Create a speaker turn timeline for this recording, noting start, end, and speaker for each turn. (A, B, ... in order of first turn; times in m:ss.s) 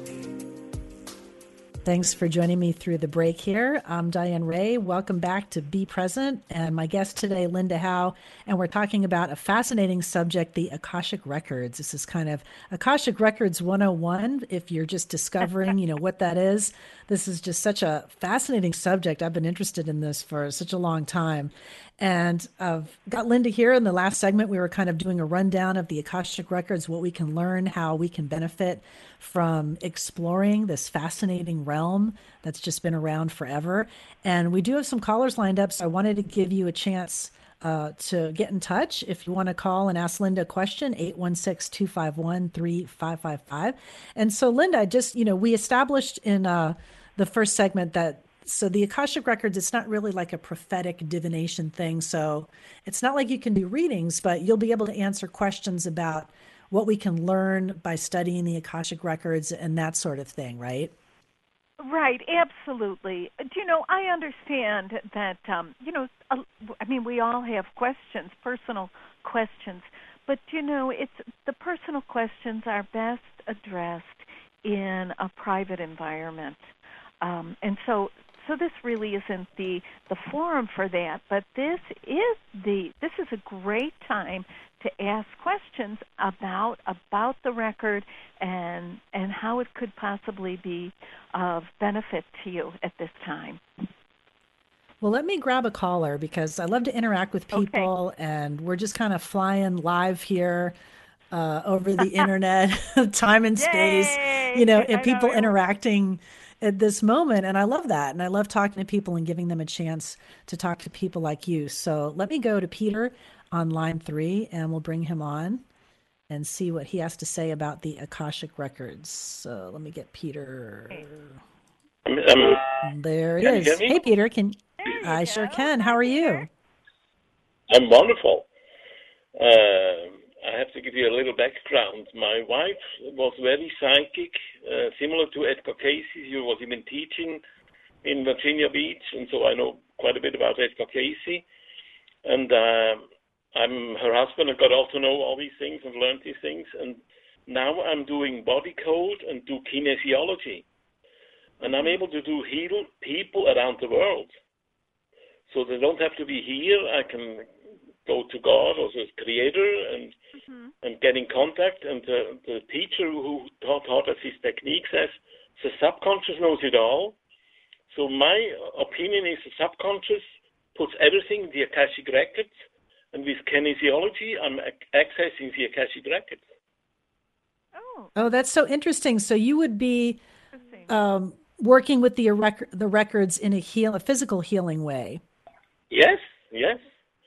0:01.8-1:00.9 A
1:01.8-1:16.7 B
1:17.2-1:33.6 B
1:35.0-1:40.7 A
1:37.5-1:37.9 B
1:41.3-1:55.6 A
1:43.6-1:45.6 B
1:56.3-2:01.4 A
2:02.0-2:02.9 C
2:02.8-2:06.5 A
2:03.4-2:04.0 C
2:04.8-2:06.5 B
2:07.7-2:08.5 C
2:09.4-2:17.4 C
2:18.0-2:21.4 C
2:22.2-2:30.6 C
2:31.6-2:34.3 C
2:31.6-2:32.0 B
2:35.5-2:37.5 C
2:38.0-2:40.2 C
2:40.4-2:40.7 B
2:40.8-2:47.2 C
2:47.9-2:50.2 C
2:50.7-2:52.5 C
2:53.1-2:56.4 C
2:57.7-2:58.1 B
2:58.2-3:00.2 A
3:00.5-3:00.9 B
3:00.9-3:05.2 A
3:05.9-3:06.8 C